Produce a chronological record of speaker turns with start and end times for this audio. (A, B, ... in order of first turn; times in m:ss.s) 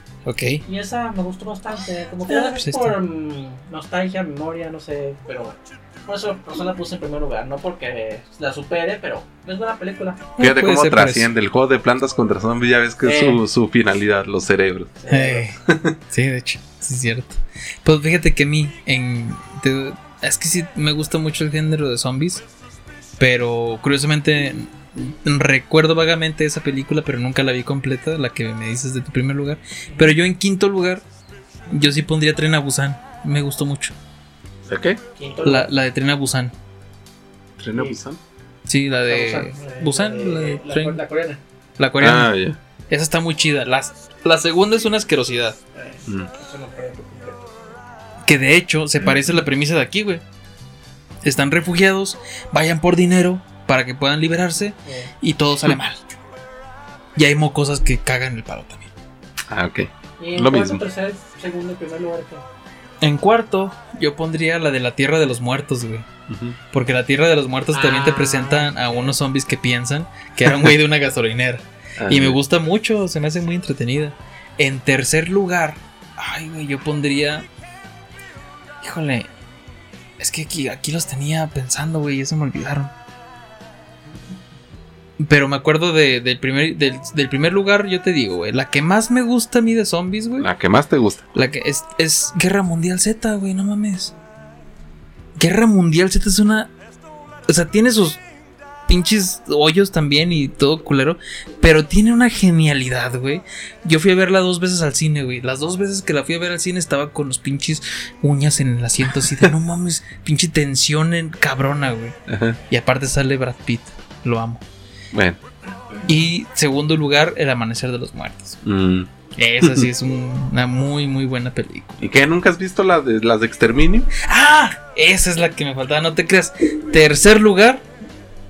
0:00.2-0:00.6 A
0:00.6-0:10.3 B
0:02.3-0:02.9 A
0:10.4-0:11.3 A
0:10.4-0:15.0 C
0:13.0-0:13.4 B
0:15.0-0:15.5 B
0:15.1-0:15.6 A
0:15.6-0:16.0 C
0:16.1-0:22.4 A
0:23.2-0:31.0 A
0:29.9-0:30.2 B
0:31.7-0:33.9 A
0:34.7-0:35.0 C
0:35.2-0:35.7 B
0:35.4-0:36.5 A
0:37.6-0:38.2 C
0:38.7-0:41.0 A
0:39.0-0:41.4 B
0:41.8-0:42.3 A
0:42.0-0:42.6 C
0:42.9-0:45.6 A
0:45.7-0:47.5 B
0:48.2-0:50.2 A
0:51.2-0:56.1 A
0:54.8-0:55.1 B
0:57.2-0:58.9 A
0:59.5-1:00.8 C
1:00.2-1:02.4 B
1:03.0-1:06.1 A
1:06.3-1:06.6 C
1:06.7-1:17.4 A
1:07.7-1:09.1 B
1:12.0-1:12.4 C
1:18.8-1:19.3 A
1:20.2-1:22.9 A
1:25.2-1:30.5 A
1:30.4-1:31.3 C
1:31.3-1:34.1 A
1:35.4-1:36.7 A
1:37.5-1:38.2 A
1:38.9-1:52.2 A
1:52.3-1:52.6 C
1:52.7-1:54.6 A
1:55.1-1:55.4 C
1:56.0-1:58.6 A
1:58.6-1:59.1 C
1:59.3-2:02.1 A
1:59.6-1:59.9 C
2:02.0-2:04.1 C
2:04.2-2:07.8 A